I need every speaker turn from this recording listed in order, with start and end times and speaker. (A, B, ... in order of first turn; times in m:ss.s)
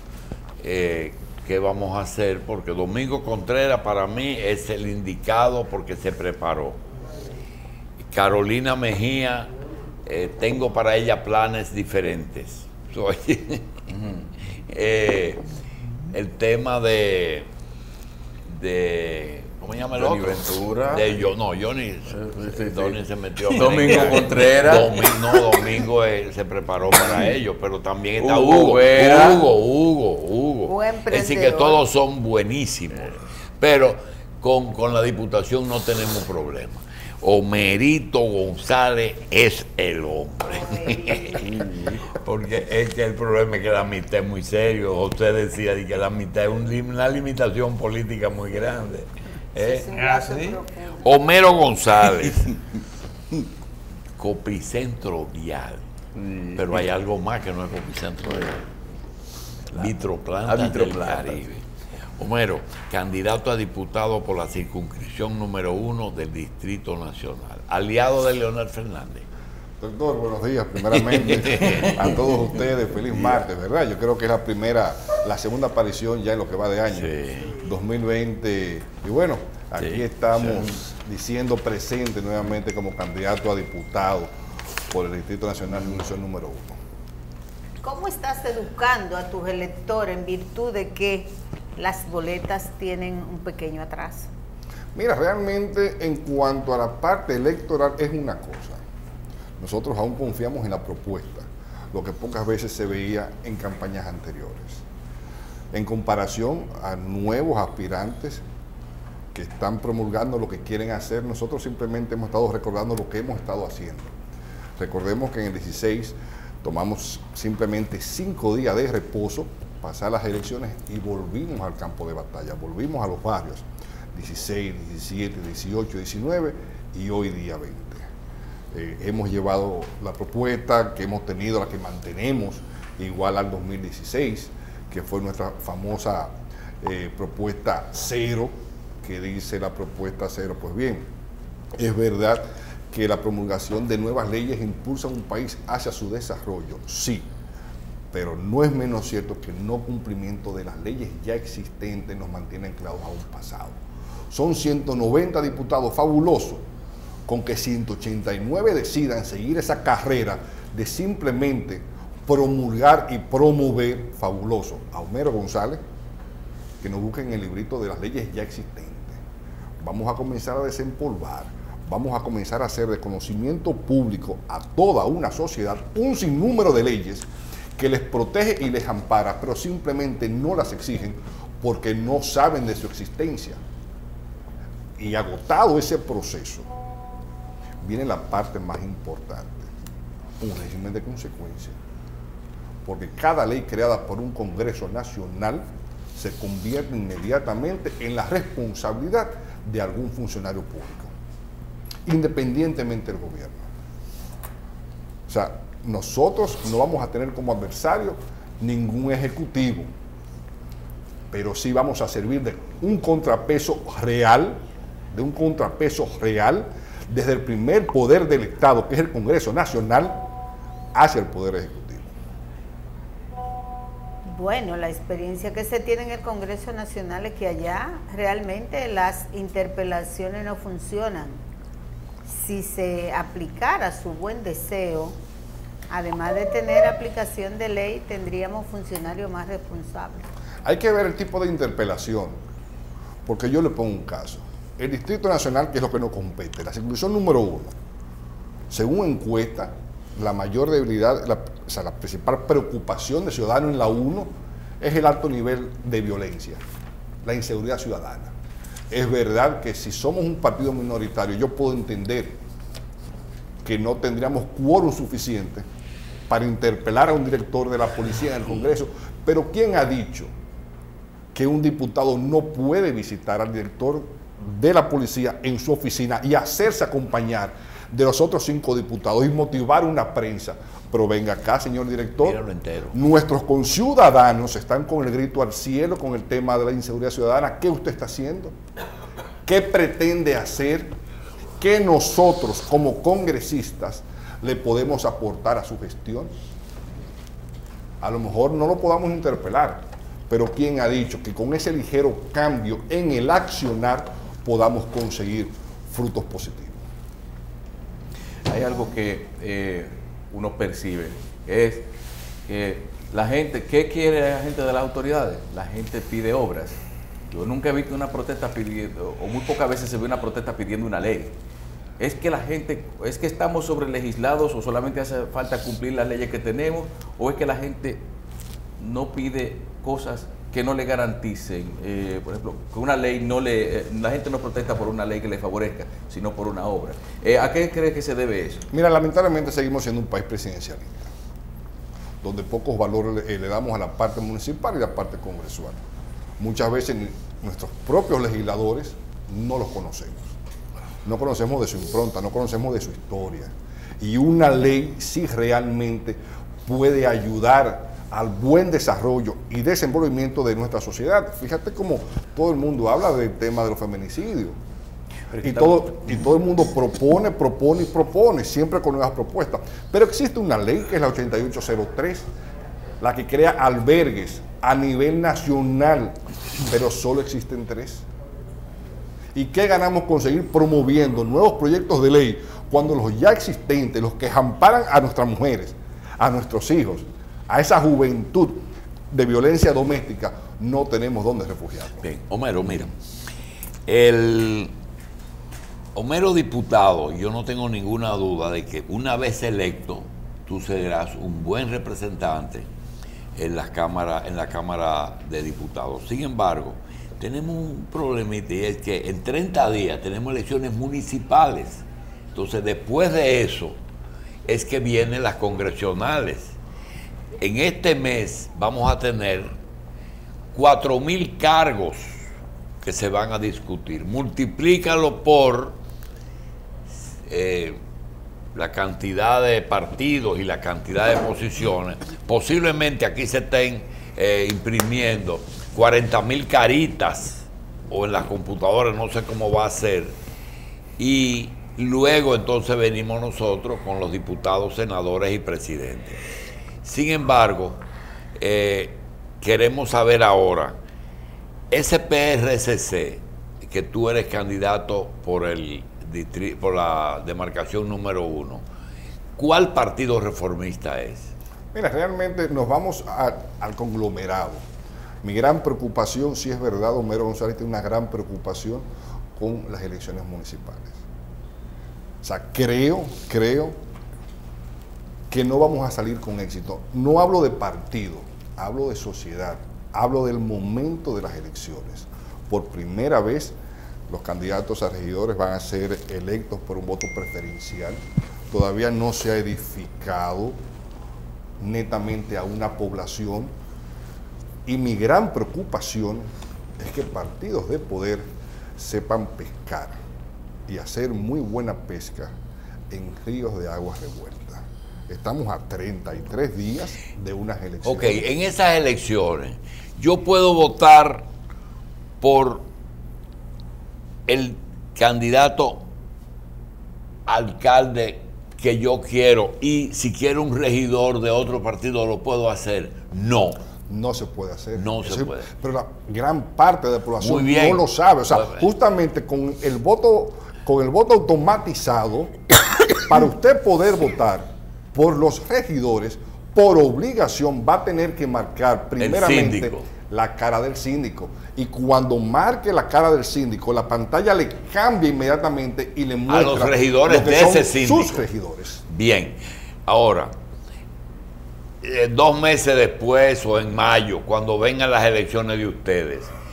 0:00.6-0:06.8 A
0:08.0-0:09.5 A
0:10.0-0:13.8 A
0:14.7-0:15.4 A
0:16.1-0:17.5 A
0:18.5-0:41.5 A
0:19.8-0:21.2 B
0:22.2-0:25.5 B
0:28.2-0:29.4 B
0:30.7-0:31.8 C
0:40.5-0:41.5 C
0:41.4-0:42.0 B
0:42.1-0:50.1 A
0:49.6-0:51.0 C
0:50.0-0:50.6 B
0:51.0-0:52.6 A
0:54.2-0:55.8 A
0:56.2-0:56.9 B
0:56.6-0:58.7 A
0:59.7-1:01.6 A
1:00.4-1:01.4 B
1:02.2-1:09.3 A
1:09.8-1:24.3 D
1:10.9-1:12.1 A
1:16.9-1:17.5 A
1:19.8-1:20.7 A
1:24.9-1:26.8 D
1:27.8-1:34.3 C
1:35.0-1:38.8 D
1:39.6-1:44.8 D
1:45.7-1:48.4 D
1:49.3-1:54.1 D
1:54.8-2:08.1 D
2:08.7-2:16.3 D
2:16.8-2:21.1 D
2:21.8-2:27.3 D
2:28.1-2:33.8 D
2:34.3-2:36.6 D
2:37.3-2:45.8 D
2:46.8-2:49.2 D
2:49.8-2:57.3 D
2:57.8-3:03.6 D
3:05.0-3:06.7 D
3:07.8-3:09.7 D
3:10.4-3:11.8 D
3:12.8-3:15.6 D
3:16.2-3:21.1 D
3:22.1-3:23.6 D
3:25.3-3:29.9 D
3:31.3-3:34.6 D
3:35.1-3:40.2 D
3:40.9-3:42.1 D
3:44.3-3:51.4 C
3:52.3-3:55.2 C
3:55.9-4:00.3 C
4:00.6-4:02.4 D
4:03.3-4:07.7 D
4:08.7-4:16.6 D
4:17.2-4:18.3 D
4:18.9-4:22.4 D
4:23.6-4:25.6 D
4:26.3-4:30.3 D
4:31.3-4:42.4 D
4:42.2-4:43.0 A
4:42.9-4:48.6 D
4:49.5-4:50.9 D
4:51.6-4:56.3 D
4:58.0-5:06.8 D
5:08.5-5:11.9 B
5:12.5-5:16.8 B
5:17.3-5:21.4 B
5:22.0-5:28.0 B
5:28.8-5:38.7 B
5:38.7-5:41.1 D
5:42.2-5:45.8 D
5:46.4-5:50.3 D
5:51.0-6:04.6 D
6:05.3-6:05.6 B
6:05.4-6:12.3 D
6:13.0-6:18.0 D
6:19.3-6:32.0 D
6:32.0-6:32.9 A
6:33.9-6:34.7 A
6:36.0-6:42.7 A
6:43.4-6:53.8 A
6:54.5-6:56.6 A
6:57.4-6:59.5 A
7:00.5-7:02.2 A
7:02.8-7:05.8 A
7:07.3-7:07.8 A
7:08.6-7:20.2 A
7:21.0-7:26.2 A
7:26.8-7:27.8 A
7:28.4-7:30.8 A
7:31.7-7:38.6 A
7:39.4-7:41.3 A
7:41.7-7:44.6 D
7:45.2-7:48.8 D
7:49.4-7:51.0 D
7:52.2-7:53.8 D
7:55.3-8:03.6 D
8:04.1-8:10.6 D
8:11.6-8:13.5 D
8:14.7-8:20.0 D
8:20.7-8:22.3 D
8:22.9-8:28.2 D
8:27.8-8:31.3 A
8:32.2-8:32.6 A
8:34.3-8:35.8 A
8:37.3-8:43.6 A
8:43.9-8:52.3 D
8:44.8-8:45.5 A
8:47.2-8:48.7 A
8:53.0-9:08.8 D
8:59.0-8:59.9 A
9:06.3-9:08.3 A
9:08.9-9:10.3 A
9:11.8-9:16.3 A